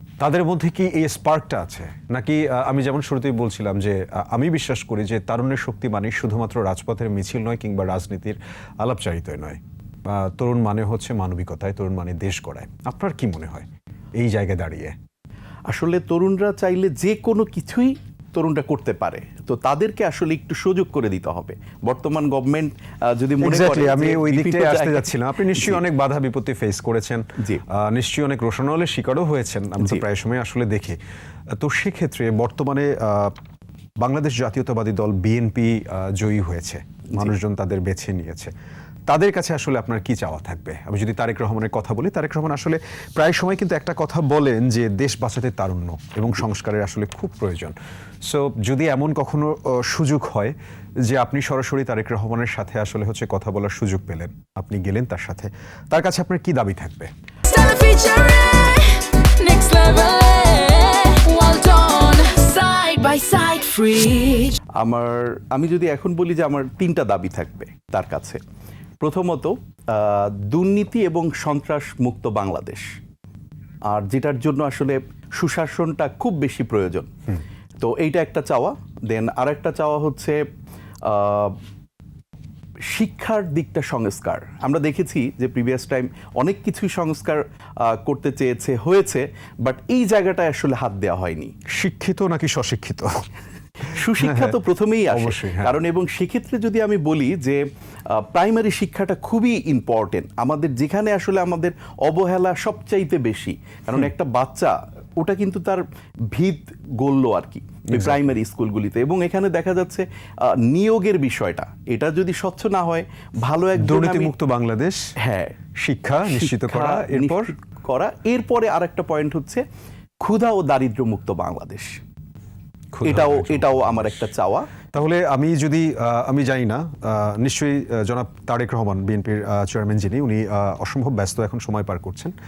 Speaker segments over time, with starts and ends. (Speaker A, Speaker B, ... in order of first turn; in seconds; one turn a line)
Speaker A: 0.2-14.9
Speaker B: 15.7-25.9
Speaker A: 23.4-31.0
Speaker B: 29.8-30.1
Speaker A: 31.6-33.3
Speaker A: 34.0-38.5
Speaker A: 39.1-47.8
Speaker A: 48.3-50.5
Speaker A: 51.1-57.1
Speaker C: 57.5-64.6
Speaker B: 64.8-68.4
Speaker B: 69.0-73.0
Speaker B: 73.8-77.1
Speaker B: 77.8-80.5
Speaker B: 81.0-81.6
Speaker B: 82.8-91.5
Speaker A: 91.7-93.1
Speaker B: 93.9-114.3
Speaker A: 93.9-94.6
Speaker A: 95.1-95.8
Speaker A: 107.9-108.2
Speaker A: 113.8-115.0
Speaker B: 115.2-115.6
Speaker A: 115.8-117.5
Speaker B: 116.2-119.7
Speaker B: 120.2-122.0
Speaker A: 122.9-124.3
Speaker B: 123.0-124.7
Speaker A: 124.9-132.3